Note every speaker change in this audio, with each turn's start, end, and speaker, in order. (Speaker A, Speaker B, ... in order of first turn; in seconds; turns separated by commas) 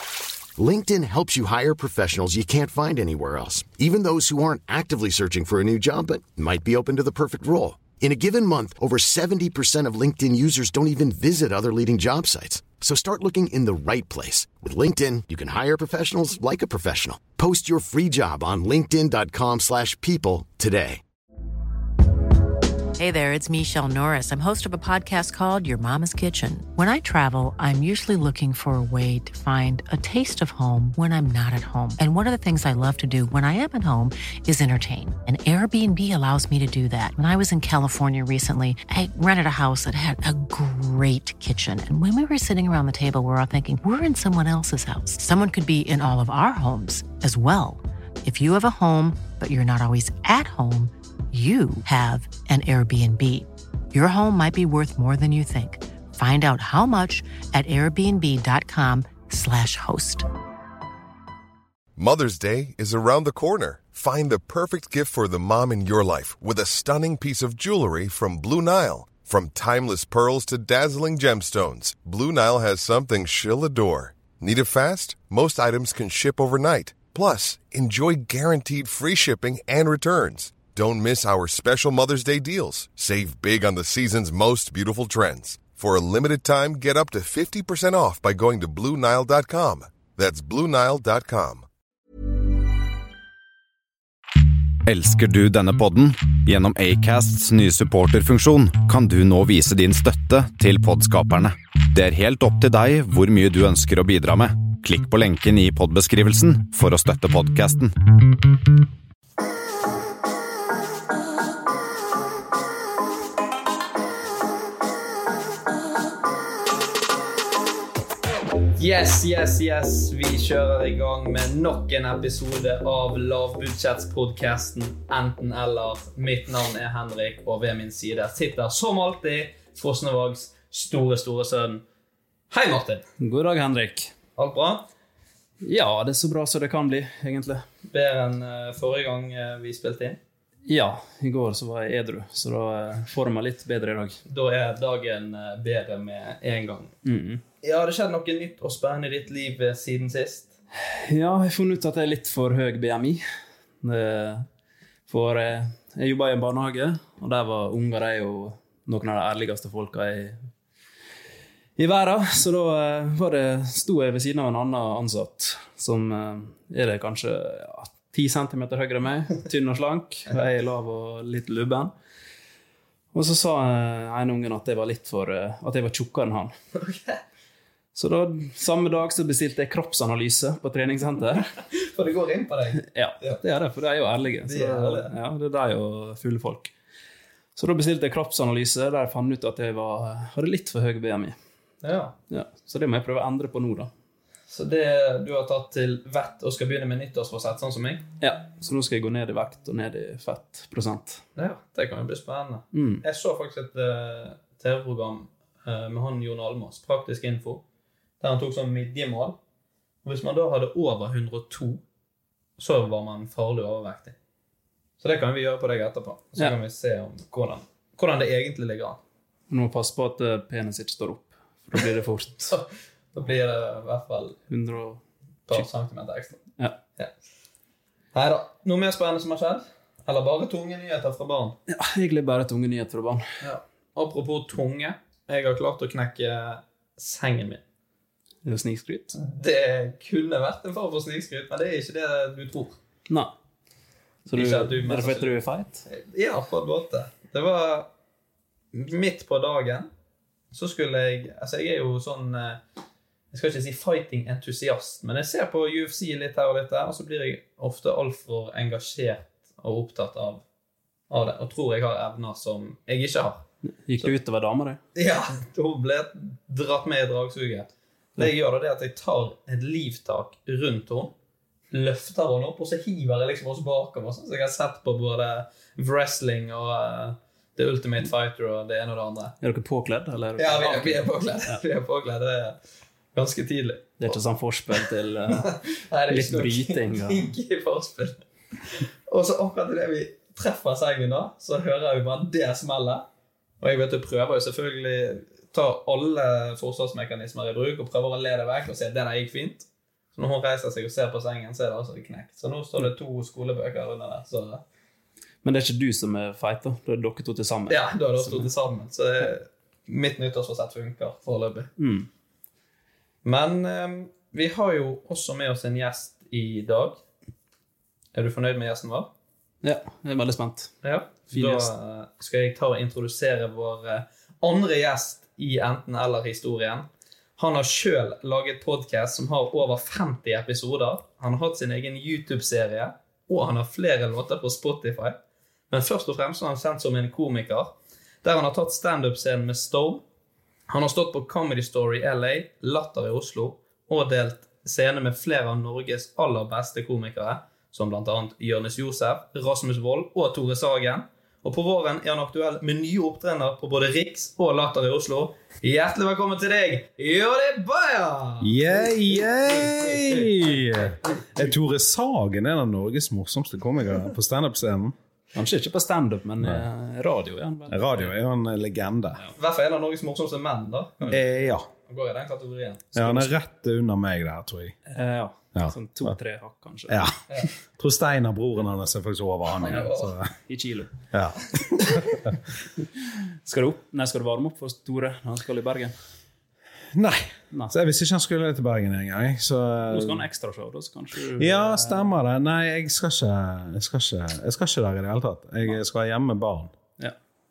Speaker A: 0.6-21.0, Speaker B: 23.0-60.3, Speaker C: 62.0-91.7, Speaker D: 94.8-107.9, Speaker E: 118.8-131.8, Speaker E: 132.5-133.1, Speaker F: 133.2-134.1, Speaker E: 134.4-134.9, Speaker F: 135.6-137.6, Speaker E: 137.9-140.2, Speaker F: 140.7-144.2, Speaker E: 144.3-146.9, Speaker F: 147.1-147.4, Speaker E: 147.6-150.5, Speaker F: 150.9-153.2, Speaker F: 153.8-154.5, Speaker F: 155.1-160.4, Speaker F: 161.8-171.9, Speaker F: 173.1-176.5, Speaker E: 176.8-177.2, Speaker F: 177.9-181.5, Speaker E: 181.7-183.4, Speaker F: 182.8-186.7, Speaker E: 184.5-185.1, Speaker F: 187.6-191.4, Speaker E: 191.8-192.1, Speaker F: 192.3-193.9, Speaker E: 194.5-198.1, Speaker F: 198.2-201.2, Speaker E: 201.4-207.6, Speaker F: 202.7-203.0, Speaker E: 208.2-209.4, Speaker E: 210.0-211.8, Speaker E: 212.6-214.2, Speaker E: 215.0-219.0, Speaker F: 219.5-222.5, Speaker E: 222.5-224.4, Speaker F: 224.5-225.7, Speaker E: 225.5-226.4, Speaker E: 228.1-231.6, Speaker F: 231.7-233.3, Speaker E: 233.4-237.6, Speaker F: 238.4-239.2, Speaker E: 239.2-242.8, Speaker F: 243.1-243.3, Speaker F: 244.2-245.8, Speaker E: 244.3-247.9, Speaker E: 248.7-249.9, Speaker E: 250.5-252.6, Speaker E: 253.3-260.4, Speaker E: 261.1-263.4, Speaker F: 263.8-264.8, Speaker E: 264.9-271.1, Speaker E: 271.7-279.3, Speaker F: 279.4-281.6, Speaker E: 280.4-282.6, Speaker E: 283.1-284.1, Speaker F: 284.0-285.5, Speaker E: 285.4-293.1, Speaker F: 286.1-287.3, Speaker E: 293.6-304.6, Speaker F: 305.4-308.5, Speaker E: 307.7-311.7, Speaker F: 311.8-312.1, Speaker E: 313.2-317.0, Speaker E: 318.1-319.1, Speaker F: 319.6-320.7, Speaker E: 320.8-335.2, Speaker F: 321.3-321.7, Speaker E: 335.7-340.0, Speaker E: 340.7-361.2, Speaker G: 358.4-364.9, Speaker F: 365.3-368.1, Speaker G: 367.7-369.2, Speaker E: 369.4-371.1, Speaker G: 371.1-371.7, Speaker E: 371.9-373.3, Speaker G: 372.9-374.8, Speaker F: 374.9-377.1, Speaker G: 375.5-376.1, Speaker G: 376.9-380.2, Speaker E: 379.6-380.1, Speaker F: 379.7-380.9, Speaker G: 381.1-382.3, Speaker F: 383.4-385.9, Speaker G: 386.9-390.2, Speaker F: 389.9-392.1, Speaker G: 391.4-396.7